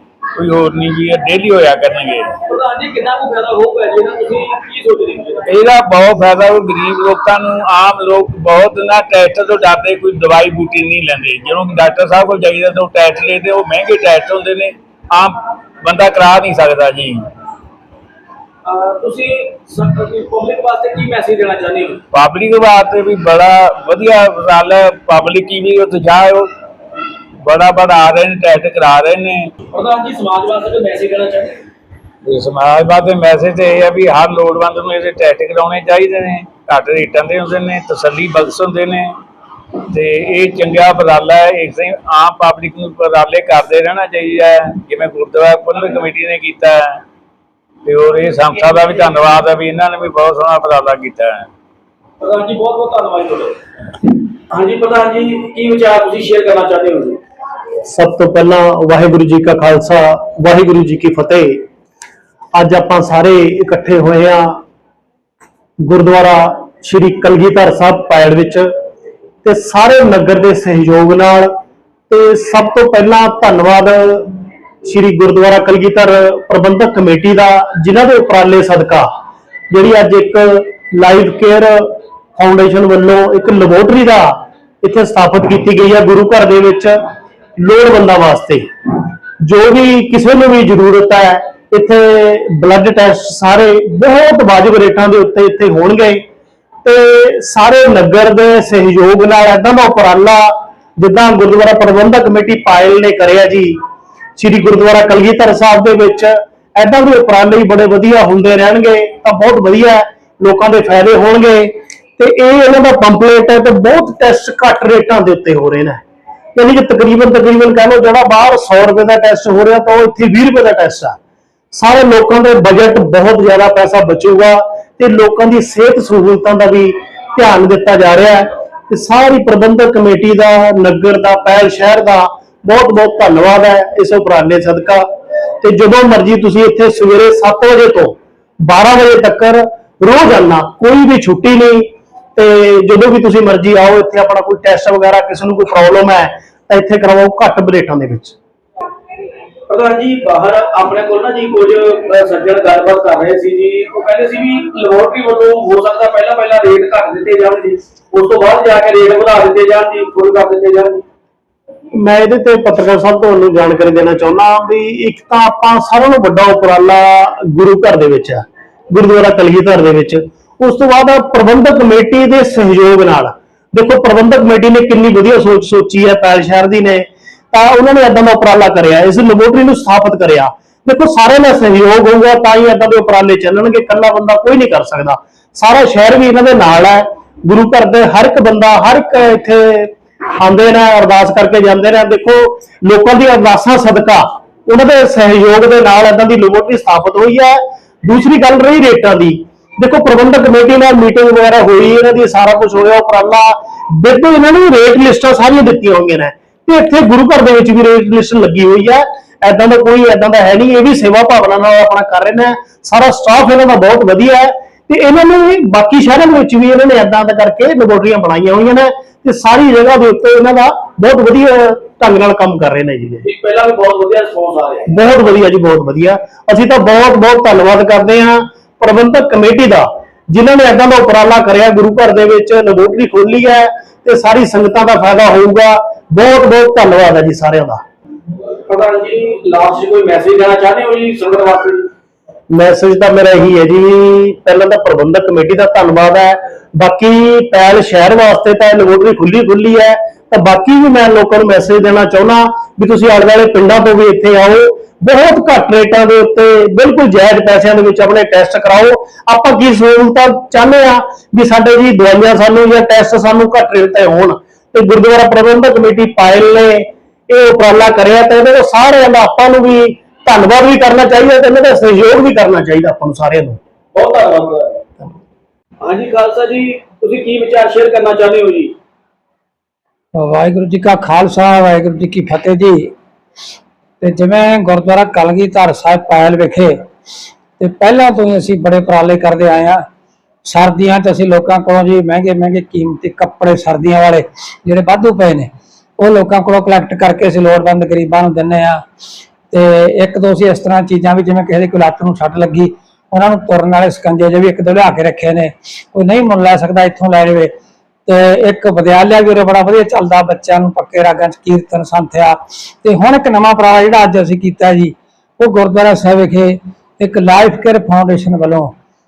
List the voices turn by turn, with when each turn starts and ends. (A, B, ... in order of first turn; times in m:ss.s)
0:00.4-0:02.4 A
0:02.4-0:05.5 B
0:05.5-0:17.2 A
0:18.6-0:22.0 B
0:22.1-0:26.5 A
0:27.4-0:29.5 A
0:29.7-0:31.6 B
0:32.2-0:39.2 A
0:39.9-0:47.0 A
0:47.8-0:51.5 A
0:52.2-0:53.6 B
0:54.5-0:57.2 B
0:57.8-1:01.6 C
1:02.5-1:04.6 C
1:05.8-1:08.7 C
1:09.4-1:11.5 C
1:12.1-1:19.1 C
1:19.7-1:27.0 C
1:27.6-1:36.2 C
1:36.8-1:43.8 C
1:44.4-1:56.0 C
1:56.6-2:01.2 C
2:01.7-2:15.1 C
2:15.6-2:28.3 C
2:29.7-2:41.0 B
2:41.9-3:43.2 C
3:43.2-3:44.8 B
3:44.9-3:57.8 C
3:58.7-4:01.9 B
4:02.5-4:33.6 C
4:33.9-4:34.8 B
4:35.8-4:38.7 B
4:40.2-4:42.9 D
4:44.0-4:46.8 D
4:47.6-4:49.8 D
4:50.4-4:58.8 D
4:59.5-5:07.5 D
5:08.0-5:18.7 D